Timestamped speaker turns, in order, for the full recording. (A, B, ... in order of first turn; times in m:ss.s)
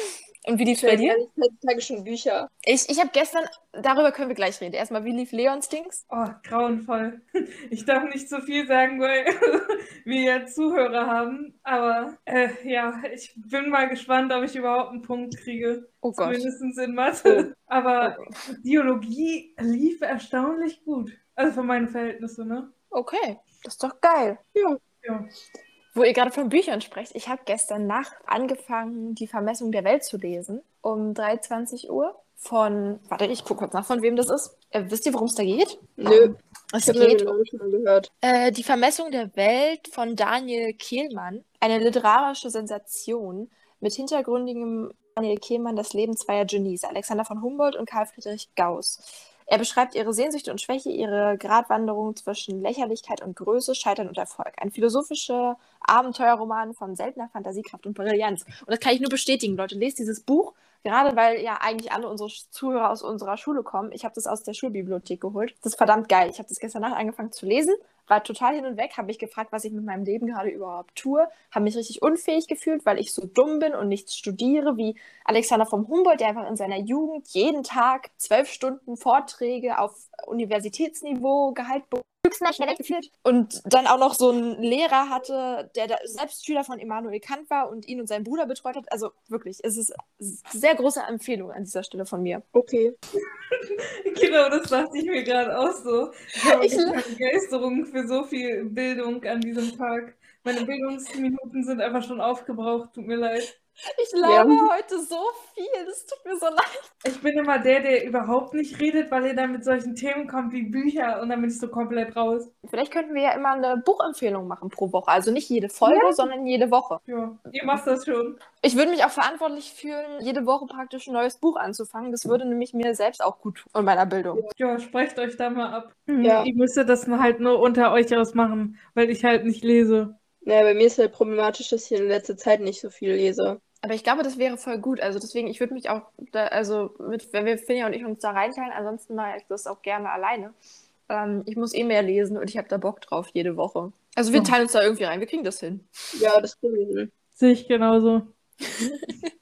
0:00.4-0:01.2 A
0:00.8-0:02.5 B
0:02.6-0:06.0 A
0:06.1-0:22.7 C
0:16.0-0:16.5 A
0:22.9-0:24.4 A
0:24.5-0:24.8 B
0:25.9-0:37.4 A
0:36.0-0:38.1 B
0:38.2-1:32.4 A
1:32.5-1:32.9 B
1:33.5-1:43.5 C
1:36.4-1:37.0 A
1:43.9-1:46.9 A
1:44.2-1:44.7 B
1:47.0-1:52.5 C
1:52.6-1:57.0 A
1:55.8-1:56.3 C
1:57.0-1:58.4 C
1:58.6-2:04.4 A
2:04.5-2:10.1 C
2:06.2-2:06.5 B
2:10.4-2:13.6 B
2:13.8-2:20.5 A
2:21.1-2:25.9 A
2:26.1-2:27.1 B
2:27.4-2:28.3 C
2:28.8-2:29.3 A